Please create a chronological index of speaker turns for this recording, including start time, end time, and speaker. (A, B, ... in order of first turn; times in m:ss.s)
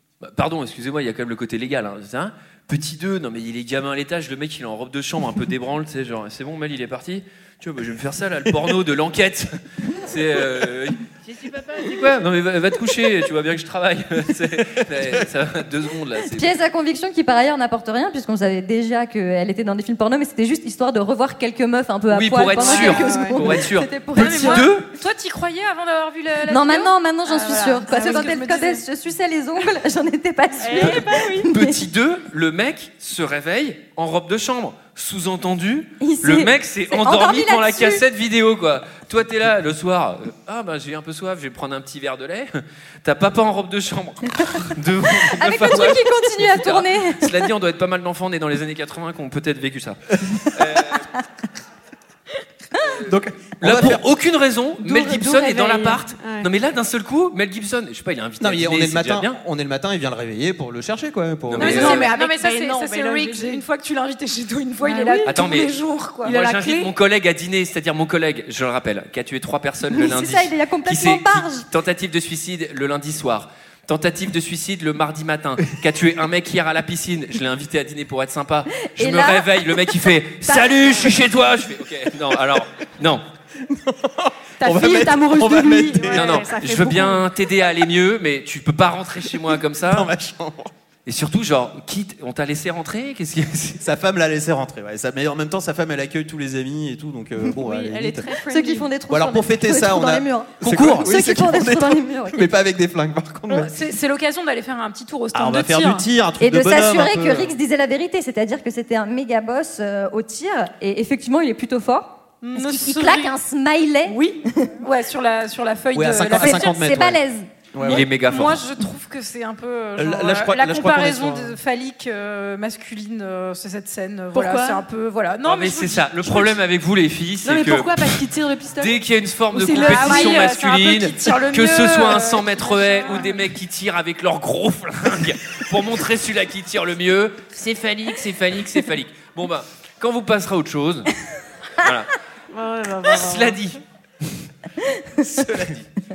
0:00.2-0:16.5 A
0:16.2-0:24.7 B
0:22.1-0:24.9 A
0:22.6-0:23.4 C
0:24.1-0:28.8 D
0:26.5-0:31.8 B
0:27.9-0:28.3 C
0:30.6-0:31.5 C
0:30.8-0:51.1 A
0:36.0-0:38.0 B
0:45.2-0:47.5 B
0:52.8-0:59.4 A
0:53.0-0:54.0 E
0:54.8-0:56.5 C
0:58.4-1:02.0 E
1:01.5-1:02.1 A
1:01.6-1:06.3 D
1:01.6-1:03.6 C
1:04.8-1:05.4 C
1:05.2-1:23.2 A
1:06.2-1:06.9 C
1:09.9-1:11.6 B
1:18.9-1:20.9 B
1:23.6-1:26.4 E
1:24.6-1:27.2 C
1:26.1-1:30.1 A
1:29.8-1:30.7 E
1:31.0-1:33.8 A
1:33.8-1:38.3 E
1:37.6-1:38.9 C
1:38.4-1:42.5 B
1:39.1-1:43.7 E
1:40.6-1:41.1 A
1:43.5-1:46.0 D
1:45.3-1:47.6 E
1:46.4-1:54.7 B
1:52.4-1:53.3 D
1:54.1-1:54.4 C
1:54.8-1:56.7 D
1:55.9-1:57.2 E
1:56.3-1:57.5 B
1:57.7-1:58.1 E
1:57.8-1:58.6 A
1:57.8-2:06.5 D
2:00.0-2:01.6 E
2:04.3-2:04.8 C
2:05.4-2:08.2 A
2:07.4-2:09.0 C
2:08.8-2:21.1 A
2:09.5-2:10.5 C
2:09.7-2:13.4 D
2:13.0-2:13.3 C
2:21.8-2:22.1 A
2:22.5-2:23.6 C
2:23.0-2:23.8 A
2:25.2-2:25.8 E